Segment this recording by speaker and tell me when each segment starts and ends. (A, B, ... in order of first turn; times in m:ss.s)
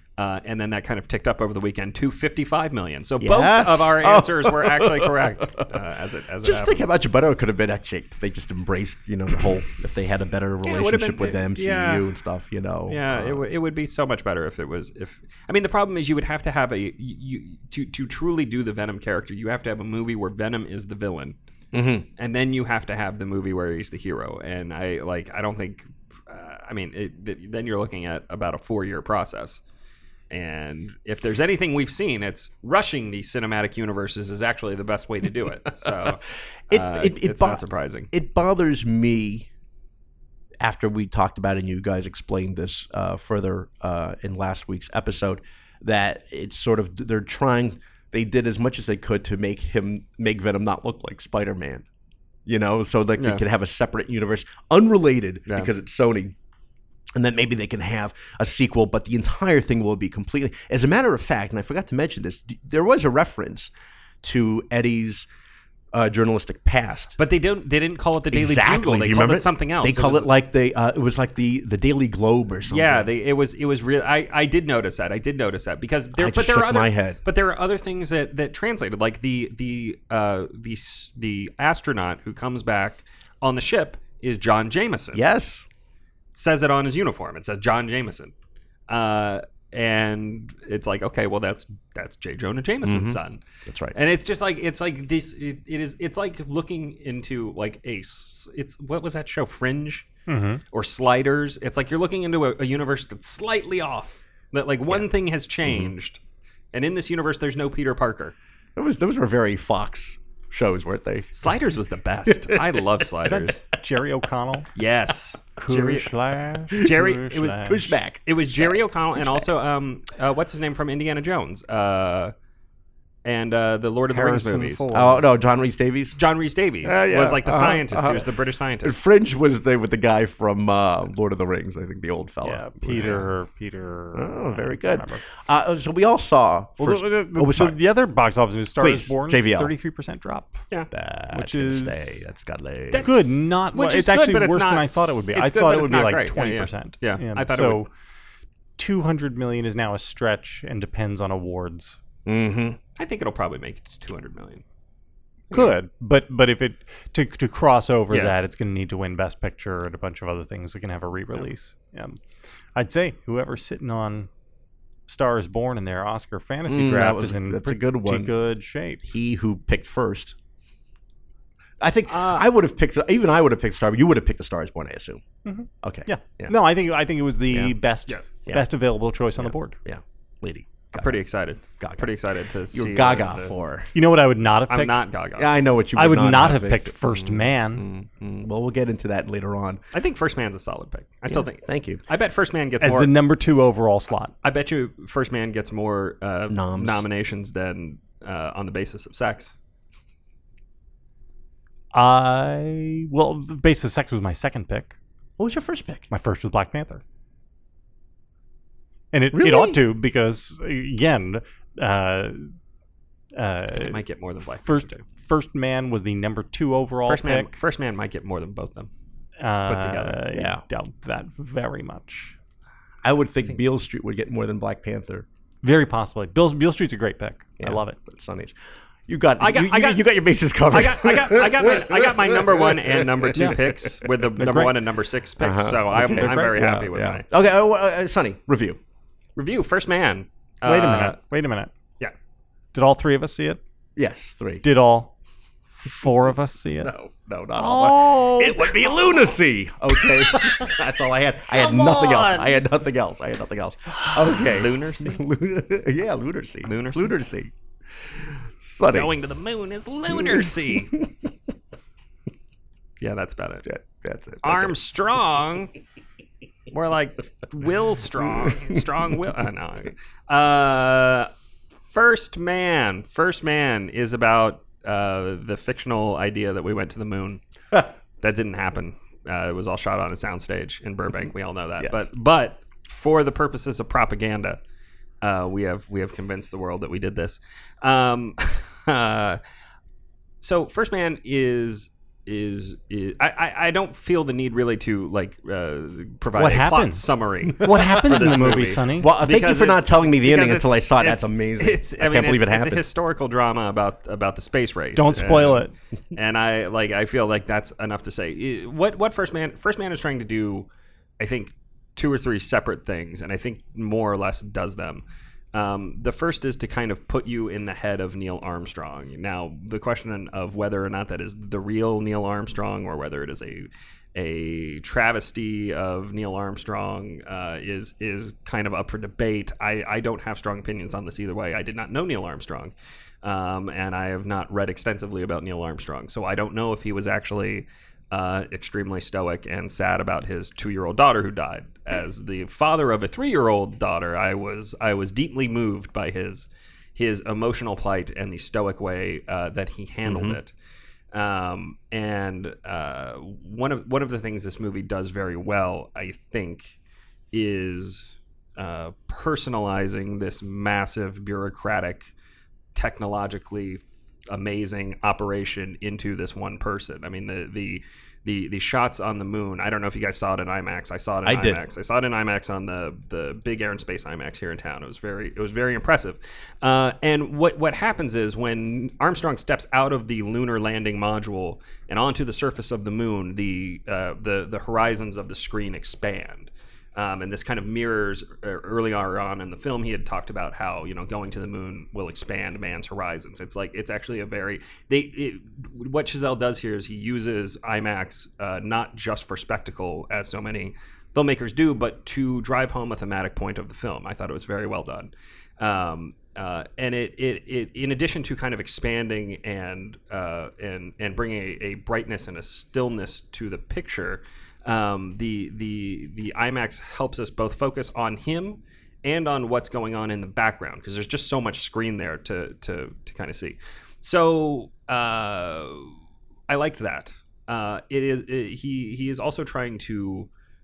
0:00.2-0:06.8 A
0:03.2-0:05.8 B
0:06.4-0:13.4 B
0:10.6-0:12.0 A
0:12.9-0:21.3 A
0:21.7-0:22.1 B
0:22.2-0:29.6 A
0:30.3-0:38.1 A
0:36.7-0:39.5 B
0:40.6-0:51.8 B
0:52.4-0:56.3 B
0:53.2-0:53.4 A
0:57.1-1:05.3 B
1:05.9-1:07.2 B
1:07.2-1:10.3 A
1:08.3-1:13.1 B
1:12.6-1:25.2 A
1:16.2-1:17.2 B
1:25.1-1:25.6 B
1:26.3-1:28.3 A
1:28.9-1:33.4 A
1:32.8-1:34.0 B
1:33.9-1:40.1 A
1:40.3-1:40.6 C
1:40.7-1:46.2 A
1:45.6-1:45.9 B
1:46.7-1:48.3 A
1:48.8-1:51.3 B
1:51.3-1:53.6 A
1:52.3-1:52.8 B
1:53.2-1:54.7 C
1:54.8-1:56.1 A
1:55.6-1:57.9 C
1:56.7-2:02.3 A
1:57.6-1:59.5 B
2:03.2-2:04.9 A
2:04.1-2:05.3 C
2:04.9-2:06.2 B
2:06.2-2:09.0 A
2:06.8-2:08.3 B
2:08.8-2:13.3 B
2:12.4-2:15.2 C
2:14.1-2:17.8 B
2:16.8-2:20.6 C
2:18.8-2:19.7 B
2:20.9-2:23.1 B
2:21.3-2:22.2 C
2:22.9-2:27.9 A
2:23.0-2:27.9 C
2:28.8-2:32.0 C
2:32.2-2:32.8 B
2:33.0-2:34.6 A
2:35.5-2:42.2 C
2:42.8-2:44.3 C
2:45.1-2:49.0 C
2:46.7-2:48.3 B
2:49.0-2:50.3 B
2:51.8-2:55.2 B
2:52.1-2:52.4 A
2:55.4-2:59.8 C
2:55.8-2:56.6 B
2:59.4-3:01.2 B
3:00.9-3:03.5 A
3:01.8-3:02.1 B
3:02.7-3:03.9 B
3:03.9-3:05.0 C
3:04.7-3:05.5 A
3:05.4-3:09.8 B
3:06.0-3:07.9 C
3:09.9-3:13.1 A
3:11.3-3:12.0 B
3:12.8-3:14.3 C
3:14.4-3:19.5 A
3:16.5-3:17.0 B
3:21.9-3:25.0 C
3:25.4-3:26.1 B
3:26.1-3:27.0 C
3:29.1-3:32.5 C
3:29.3-3:29.8 B
3:33.3-3:37.5 C
3:33.7-3:35.0 A
3:37.1-3:38.9 A
3:39.4-3:42.4 C
3:39.6-3:40.2 A
3:40.3-3:40.6 B
3:43.0-3:45.2 B
3:45.6-3:48.0 C
3:47.6-3:48.6 B
3:49.1-3:53.9 B
3:49.4-3:50.1 A
3:50.7-3:57.2 A
3:53.3-3:53.6 C
3:54.4-3:54.7 C
3:55.4-3:58.8 B
3:56.1-3:56.6 C
3:59.4-4:01.2 A
4:00.6-4:01.7 C
4:02.7-4:03.6 C
4:04.0-4:04.6 B
4:04.6-4:05.1 C
4:05.8-4:06.9 C
4:06.8-4:17.5 B
4:07.6-4:08.9 C
4:11.5-4:12.5 C
4:14.2-4:15.2 A
4:16.6-4:17.2 A
4:18.1-4:19.1 B
4:18.9-4:21.0 A
4:20.1-4:21.3 B
4:23.0-4:23.6 A
4:23.6-4:24.7 B
4:24.4-4:25.7 A
4:26.7-4:31.3 A
4:31.9-4:44.6 A
4:41.8-4:42.0 B
4:45.2-4:49.4 A
4:50.4-5:10.7 A
4:56.3-4:59.1 C
4:57.6-5:02.9 B
5:05.0-5:05.7 C
5:11.2-5:50.5 A
5:50.0-5:50.4 B
5:51.1-5:56.8 A
5:57.3-6:02.1 A
6:02.7-7:05.9 A
6:11.2-6:11.6 B
7:06.5-7:10.3 A